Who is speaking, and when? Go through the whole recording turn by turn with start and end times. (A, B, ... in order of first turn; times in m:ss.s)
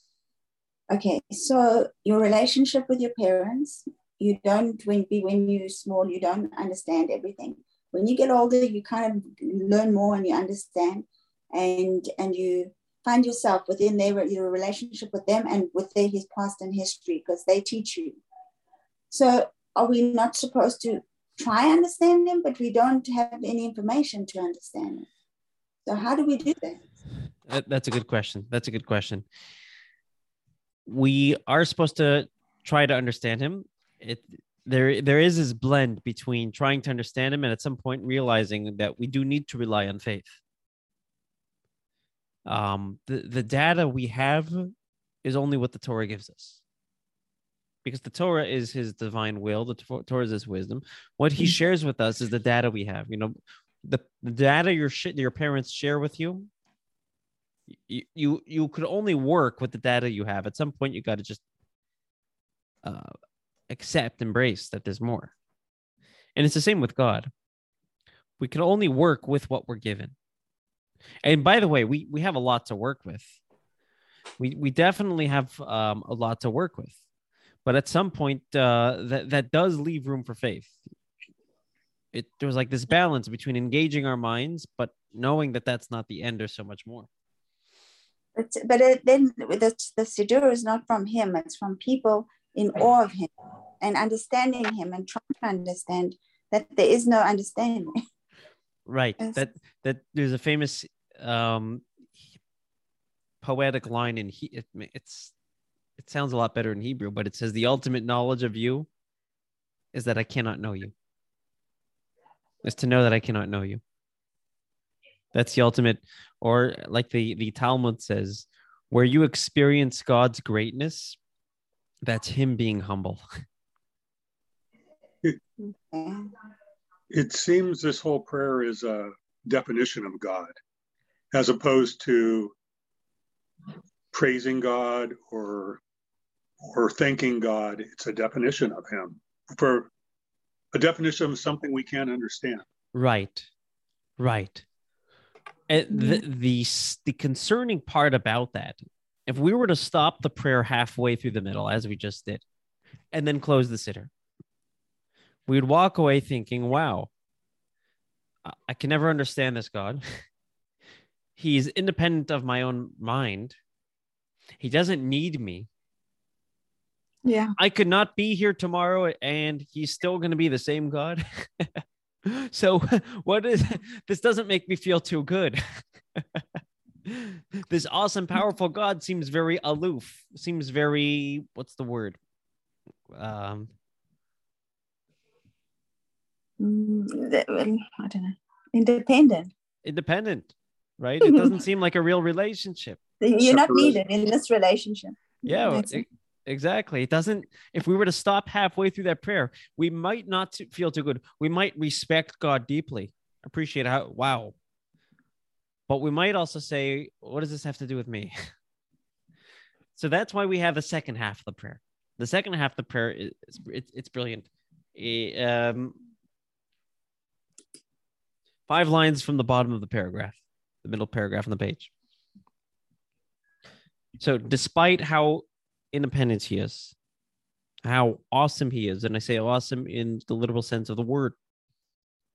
0:00.9-0:18.2 A
0:19.1-0:25.1 A
0:25.9-0:26.8 A
0:27.5-0:29.2 B
0:30.9-0:40.4 B
0:42.5-0:44.7 B
0:45.2-0:46.6 B
0:47.8-0:56.5 B
0:57.7-1:01.4 B
1:02.8-1:03.1 B
1:03.7-1:05.3 B
1:06.4-1:07.3 B
1:08.4-1:10.1 B
1:11.2-1:13.4 B
1:14.4-1:17.0 B
1:17.6-1:20.8 B
1:22.1-1:27.1 B
1:28.4-1:37.9 A
1:38.9-1:42.2 B
1:43.4-1:45.3 B
1:46.0-1:48.9 B
1:49.9-1:50.9 B
1:52.6-1:53.8 B
1:55.3-2:01.2 B
2:02.0-2:03.2 B
2:05.9-2:06.3 A
2:07.1-2:10.5 C
2:11.3-2:12.5 C
2:14.1-2:15.8 C
2:16.6-2:19.9 C
2:20.7-2:22.6 C
2:22.9-2:23.5 B
2:24.2-2:24.6 B
2:25.7-2:32.4 B
2:25.9-2:26.2 A
2:33.1-2:34.1 B
2:35.5-2:37.1 B
2:38.4-2:40.2 B
2:41.4-2:43.6 B
2:44.6-2:45.7 B
2:47.2-2:47.6 A
2:47.6-2:56.4 B
2:57.1-3:02.2 B
3:03.1-3:03.7 B
3:06.6-3:09.5 A
3:09.8-3:13.0 B
3:11.2-3:11.6 A
3:13.2-3:16.0 A
3:13.5-3:14.0 C
3:15.4-3:24.6 B
3:25.9-3:28.4 B
3:30.0-3:36.0 B
3:38.7-3:41.9 B
3:44.2-3:47.0 B
3:47.8-3:51.4 B